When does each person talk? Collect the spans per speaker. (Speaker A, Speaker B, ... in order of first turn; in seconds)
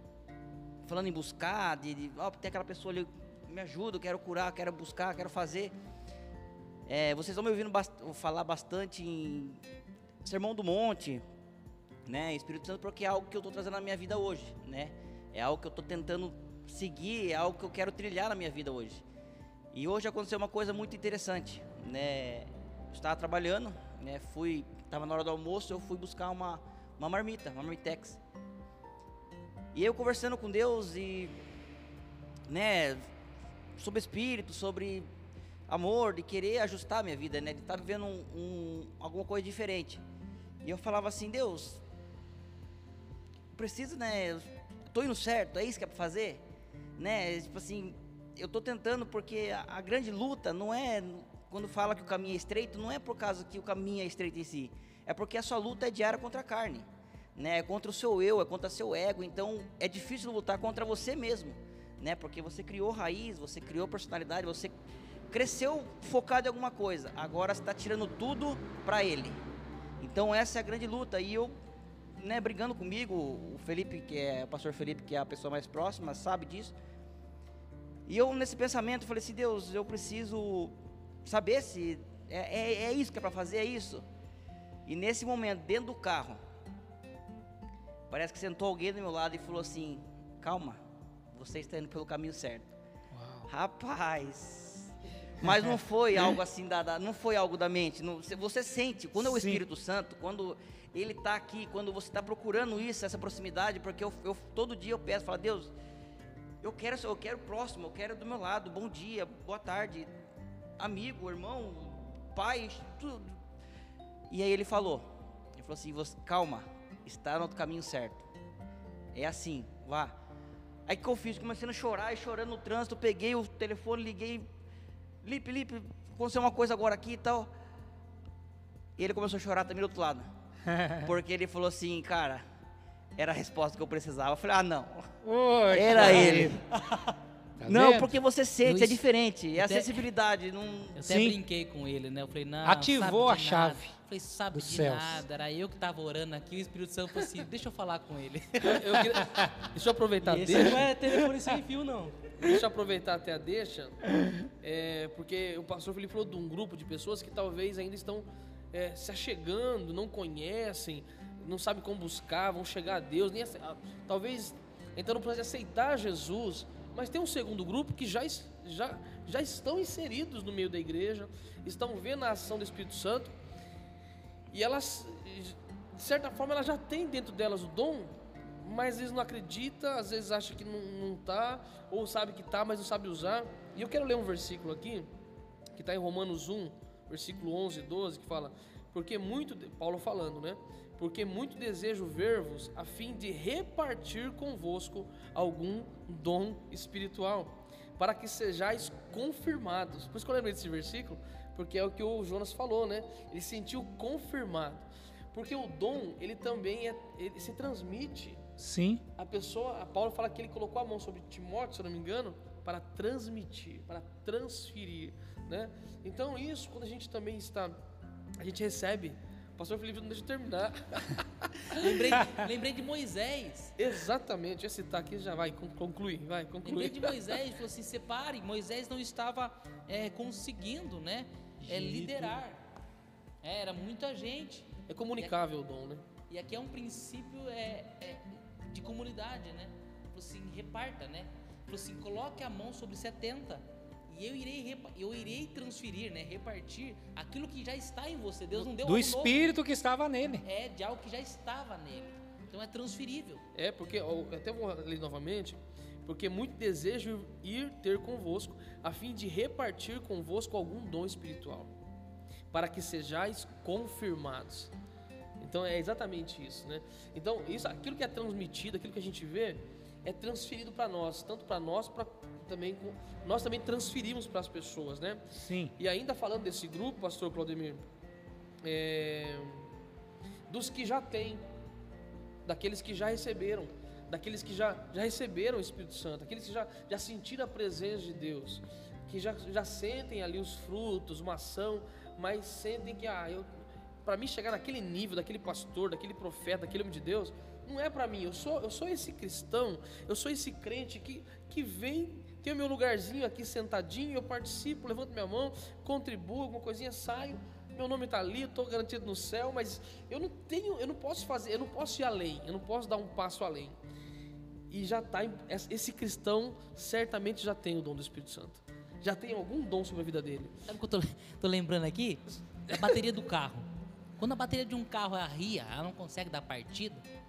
Speaker A: 0.8-5.7, 6.9-9.6, 10.2-11.2, 12.1-19.0, 19.7-28.2, 29.7-31.3, 32.5-33.1, 33.8-35.1, 35.7-40.0, 40.6-41.8, 43.5-46.4, 47.0-64.7, 65.3-69.4, 70.0-71.5, 72.2-76.7, 78.0-84.0, 84.8-86.4, 88.1-90.8, 91.3-92.7, 93.5-105.7, 106.6-110.1, 110.8-113.3, 114.3-118.2, 119.1-120.2, 120.9-124.5, 125.2-127.5, 129.0-130.3, 131.0-132.4, 133.2-135.1, 135.7-136.6, 137.7-141.0
Speaker B: 93.1-93.5, 99.2-99.6, 130.7-131.1, 135.2-136.6, 137.6-138.1, 141.0-141.4, 142.6-143.9, 144.5-145.2, 208.6-209.0, 231.6-232.4, 248.8-250.4, 275.3-275.7
Speaker C: 138.6-140.0, 140.9-148.8, 221.7-223.7, 226.6-232.6, 233.4-235.3, 236.3-249.5, 250.4-253.4, 320.7-327.0
Speaker D: 148.6-150.9, 152.4-173.3, 174.5-185.1, 185.7-208.4, 209.2-217.8, 218.4-221.7, 223.8-227.2, 234.9-236.0, 253.5-261.7, 262.5-264.7, 265.4-275.2, 275.8-277.8, 278.6-279.7, 280.5-281.4, 282.4-293.5, 294.0-313.8, 314.7-320.5
Speaker E: 150.2-152.3